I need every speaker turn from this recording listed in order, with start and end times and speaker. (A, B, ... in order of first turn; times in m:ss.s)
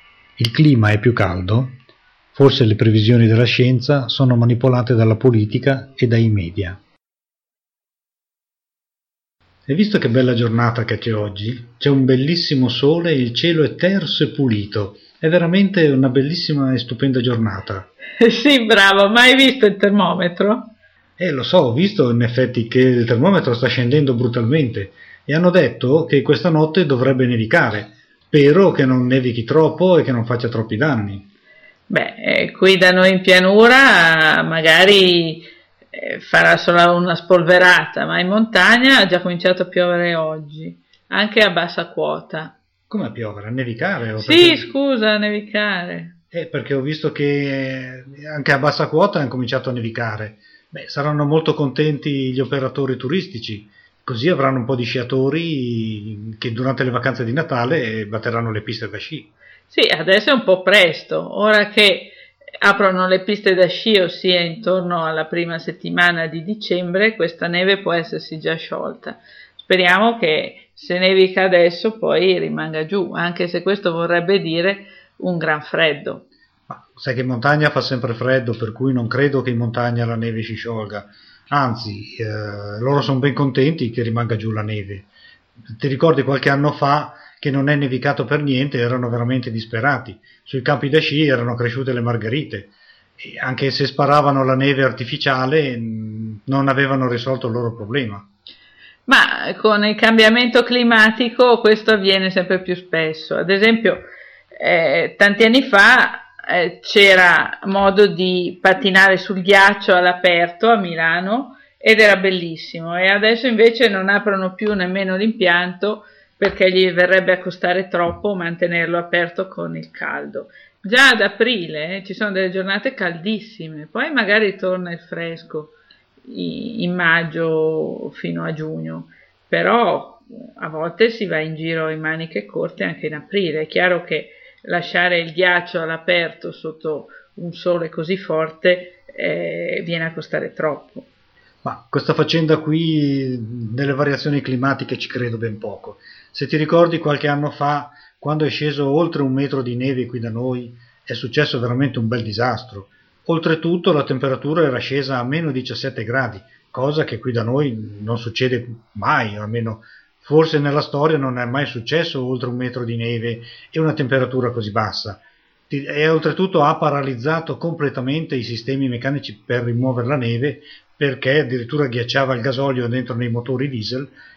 0:00.4-0:01.8 A
0:02.3-0:06.8 A
0:09.7-0:17.9 A
0:18.2-0:20.7 B
0:21.2-0:31.3 A
0:31.9-0:42.6 B
0:42.9-0:44.7 A
0:44.2-0:46.2 B
0:46.3-0:59.3 A
0:59.7-1:16.2 B
1:16.7-1:25.1 A
1:25.8-1:38.2 A
1:39.1-2:21.1 B
2:21.6-2:54.1 A